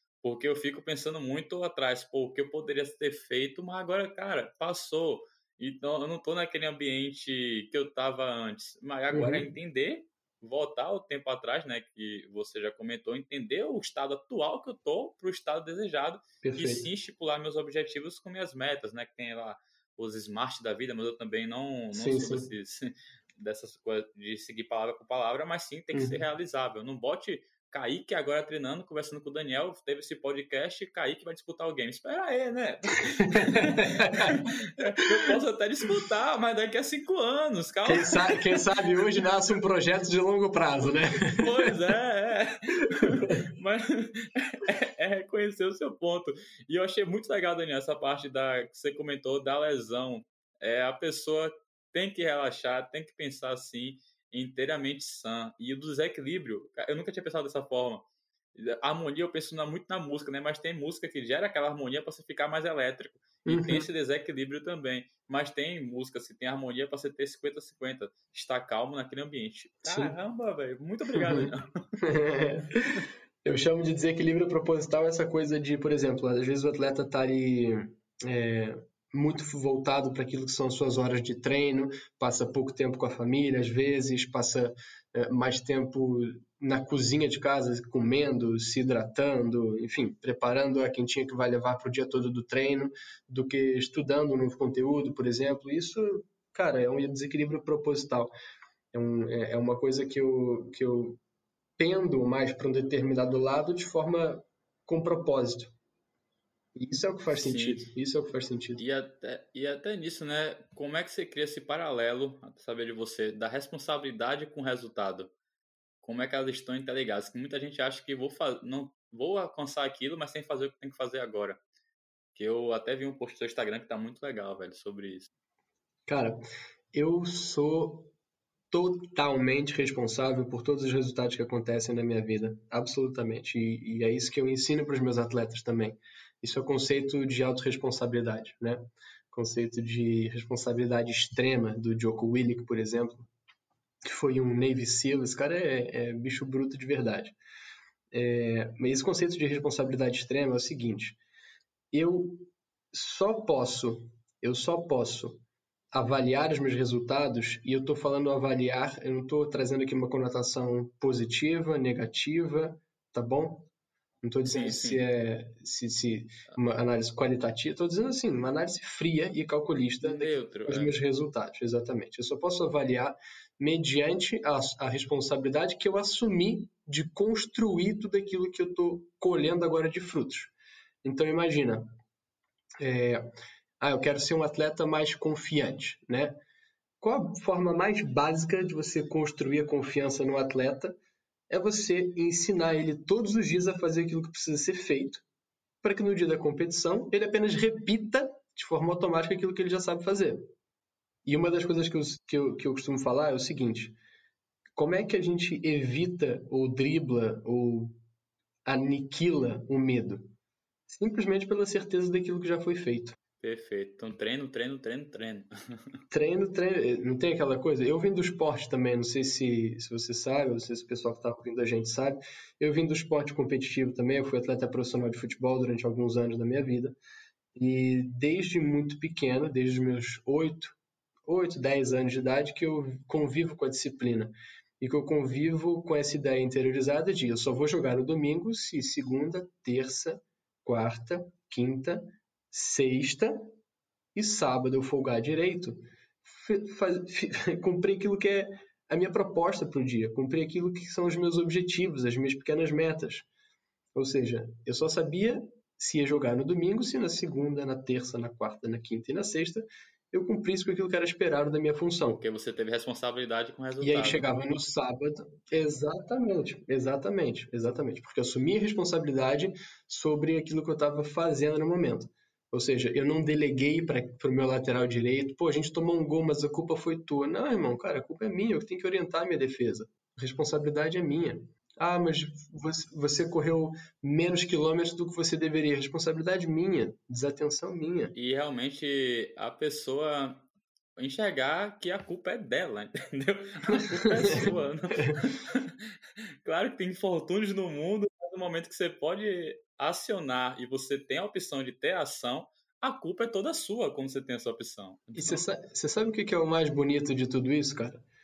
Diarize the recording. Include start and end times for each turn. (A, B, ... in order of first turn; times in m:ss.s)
0:00.2-0:39.2 A
0:09.1-0:09.5 B
0:16.4-0:16.9 B
0:21.9-0:22.5 B
0:25.9-0:26.2 B
0:33.3-0:34.4 B
0:37.8-0:41.7 B
0:41.2-1:11.7 A
0:43.0-0:43.4 B
1:03.5-1:03.9 B
1:09.8-1:10.1 B
1:11.1-1:38.3 B
1:38.9-1:41.2 B
1:41.8-1:45.7 B
1:46.8-1:48.8 B
1:47.3-1:47.9 A
1:48.8-1:55.3 A
1:56.0-2:01.6 A
2:02.4-2:05.3 A
2:06.1-2:06.4 B
2:06.9-2:08.1 B
2:08.7-2:23.3 B
2:24.0-2:27.4 B
2:28.1-2:31.2 B
2:31.9-2:43.7 B
2:44.2-3:00.5 B
2:44.4-2:45.0 A
2:50.0-2:51.0 A
3:01.0-3:01.9 B
3:02.8-3:03.3 B
3:03.8-3:06.4 B
3:07.0-3:11.0 B
3:11.5-3:15.2 B
3:15.8-3:20.5 B
3:21.2-3:24.0 B
3:24.8-3:28.0 B
3:28.7-3:30.3 B
3:30.9-3:33.2 B
3:33.4-3:35.5 A
3:36.1-3:47.0 B
3:47.6-4:03.5 B
4:04.2-4:13.3 B
4:14.0-4:22.2 B
4:22.2-4:24.3 A
4:23.8-4:48.1 B
4:48.2-4:50.5 A
4:51.0-4:55.9 A
4:54.0-4:54.5 B
4:56.4-5:05.5 A
5:05.2-5:08.0 B